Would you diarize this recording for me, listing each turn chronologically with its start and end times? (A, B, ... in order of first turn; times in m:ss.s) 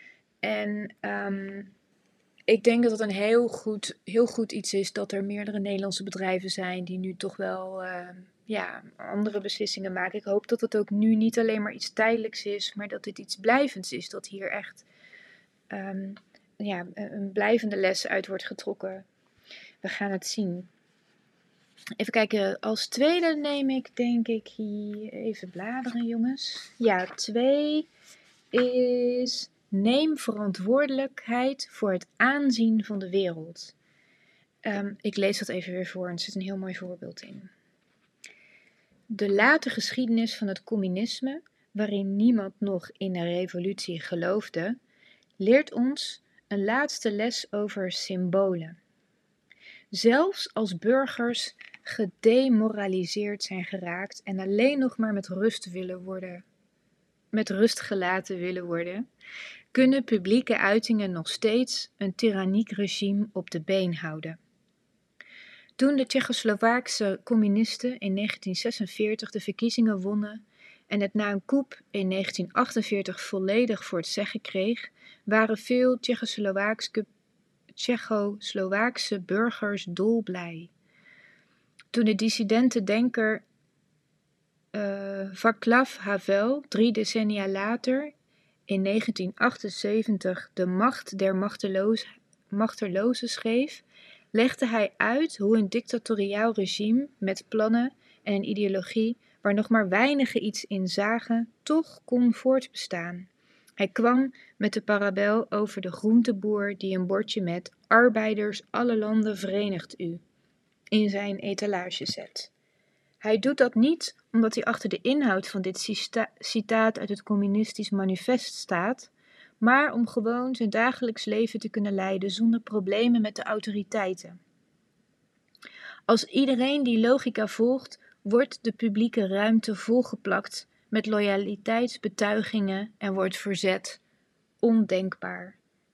0:00.4-0:01.7 A
0:02.5-0:14.9 A
0:15.7-0:19.1 A
0:19.8-0:20.7 A
0:22.0-0:27.9 A
0:28.5-0:33.8 A
0:34.6-0:37.5 A
0:39.1-0:44.8 A
0:45.4-0:48.8 A
0:49.9-0:56.4 A
0:57.3-0:59.1 A
0:59.7-1:04.4 A
1:05.8-1:17.1 A
1:17.7-1:20.7 A
1:21.9-1:23.4 A
1:24.7-1:28.1 A
1:28.7-1:50.2 A
1:50.9-1:52.5 A
1:53.2-2:04.4 A
2:06.1-2:14.0 A
2:14.6-2:15.6 A